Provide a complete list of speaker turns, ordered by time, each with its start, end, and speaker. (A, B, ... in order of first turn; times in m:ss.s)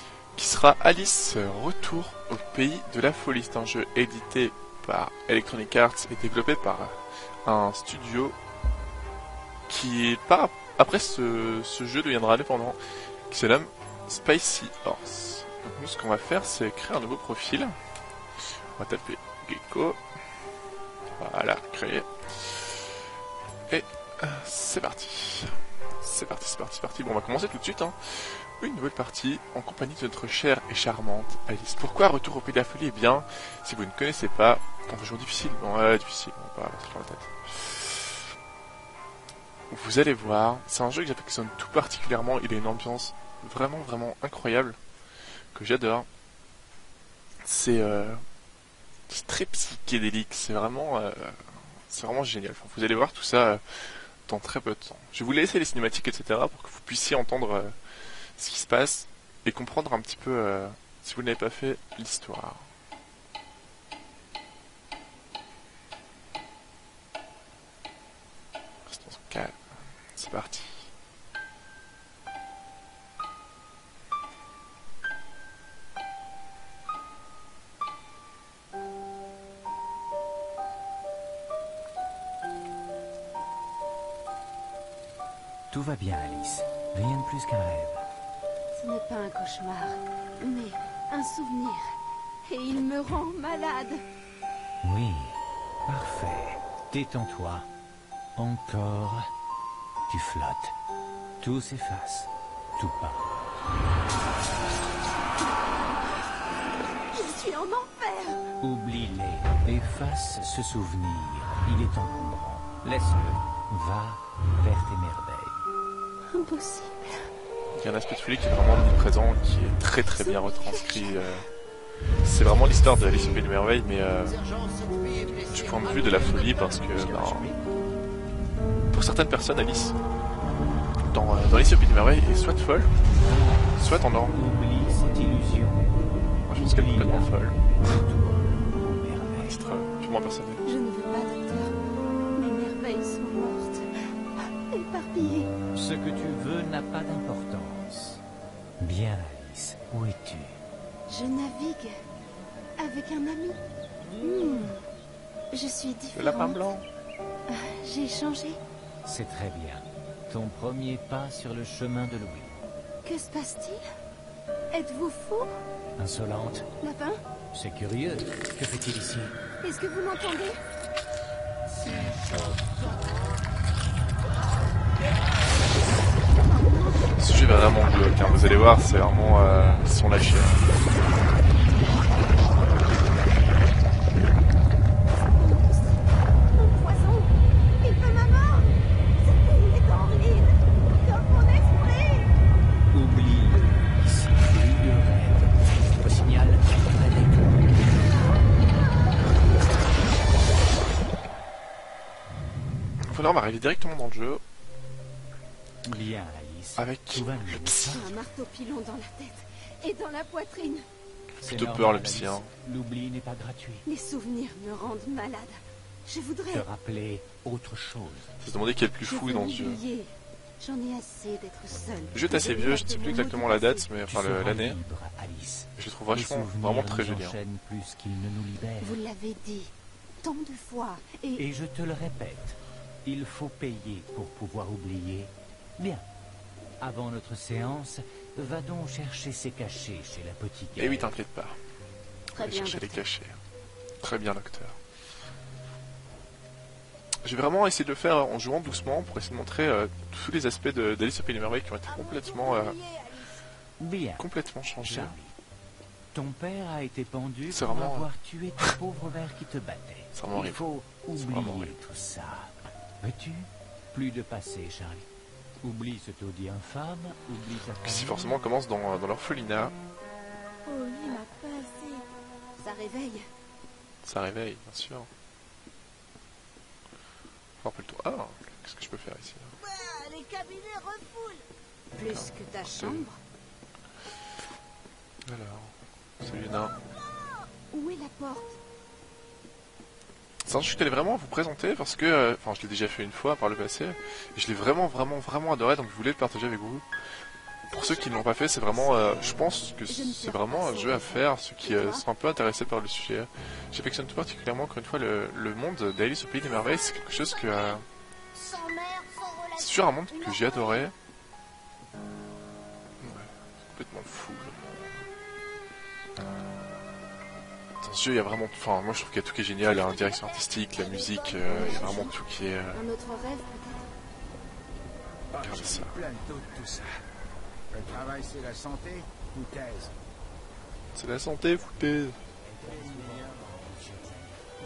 0:00.3-0:08.4 A
0:09.7-0:12.8 A
0:13.3-0:17.8 A
0:18.8-0:20.0 A
0:21.2-0:22.8 A
0:23.7-0:38.2 A
0:39.7-0:44.8 A
0:45.5-0:46.1 A
0:47.4-0:48.2 A
0:49.1-0:57.7 A
0:58.4-1:02.7 A
1:08.9-1:10.9 A
1:25.7-1:28.0 B
1:28.7-1:31.8 C
1:32.4-1:34.0 C
1:34.8-1:37.7 B
1:38.4-1:39.3 B
1:40.1-1:40.7 B
1:41.4-1:43.3 B
1:47.1-1:48.4 C
1:48.6-1:55.6 B
1:56.3-1:57.3 C
1:57.7-2:01.5 A
2:00.1-2:01.2 C
2:02.2-2:04.4 A
2:04.9-2:05.3 D
2:05.5-2:07.5 A
2:06.9-2:07.4 D
2:08.9-2:10.0 A
2:11.1-2:12.9 A
2:13.1-2:16.0 B
2:13.8-2:14.3 A
2:16.5-2:18.0 A
2:16.5-2:19.6 B
2:19.4-2:20.6 A
2:20.6-2:21.8 C
2:22.3-2:23.8 C
2:24.4-2:25.5 C
2:25.7-2:28.2 B
2:28.8-2:30.6 B
2:31.1-2:31.9 C
2:32.8-2:33.6 C
2:34.2-2:34.8 C
2:35.5-2:36.6 C
2:36.1-2:36.8 A
2:37.5-2:38.6 C
2:39.0-2:42.6 B
2:43.0-2:43.8 C
2:44.7-2:45.5 C
2:46.0-2:46.7 B
2:46.8-2:47.2 C
2:47.5-2:49.4 B
2:49.6-2:50.6 C
2:56.5-2:56.9 C
2:57.1-3:00.6 A
3:05.2-3:06.0 C
3:06.5-3:12.3 C
3:12.9-3:17.9 B
3:23.0-3:24.4 A
3:25.8-3:28.1 B
3:26.8-3:27.9 A
3:27.5-3:30.8 C
3:31.4-3:32.5 A
3:31.4-3:33.8 B
3:33.8-3:36.6 C
3:36.5-3:38.3 B
3:38.4-3:39.8 A
3:39.0-3:40.1 C
3:40.6-3:43.9 C
3:42.1-3:44.8 A
3:44.1-3:49.0 B
3:45.8-3:47.4 A
3:48.8-3:51.4 C
3:51.4-3:56.1 B
3:56.8-4:01.2 B
4:00.8-4:01.6 A
4:02.4-4:03.0 C
4:02.4-4:03.4 A
4:04.0-4:04.8 A
4:07.2-4:12.8 A
4:13.8-4:15.3 B
4:14.2-4:15.2 A
4:16.1-4:25.1 B
4:17.5-4:18.1 A
4:20.1-4:21.8 A
4:25.6-4:28.2 B
4:27.8-4:29.7 A
4:30.7-4:32.0 C
4:32.6-4:33.2 C
4:34.0-4:35.1 A
4:37.6-4:39.5 A
4:39.6-4:41.4 C
4:41.9-4:43.2 C
4:42.1-4:43.1 A
4:45.2-4:46.8 A
4:47.7-4:48.6 C
4:50.4-4:56.9 A
4:57.7-5:07.8 A
4:57.7-5:02.0 C
5:08.3-5:09.1 C
5:09.6-5:10.9 A
5:10.2-5:10.8 C
5:13.0-5:15.0 A
5:17.8-5:22.8 A
5:21.4-5:22.1 C
5:22.7-5:23.9 C
5:25.3-5:26.9 D
5:25.4-5:26.0 A
5:27.7-5:30.0 D
5:30.9-5:32.2 A
5:32.4-5:34.4 B
5:32.6-5:33.6 D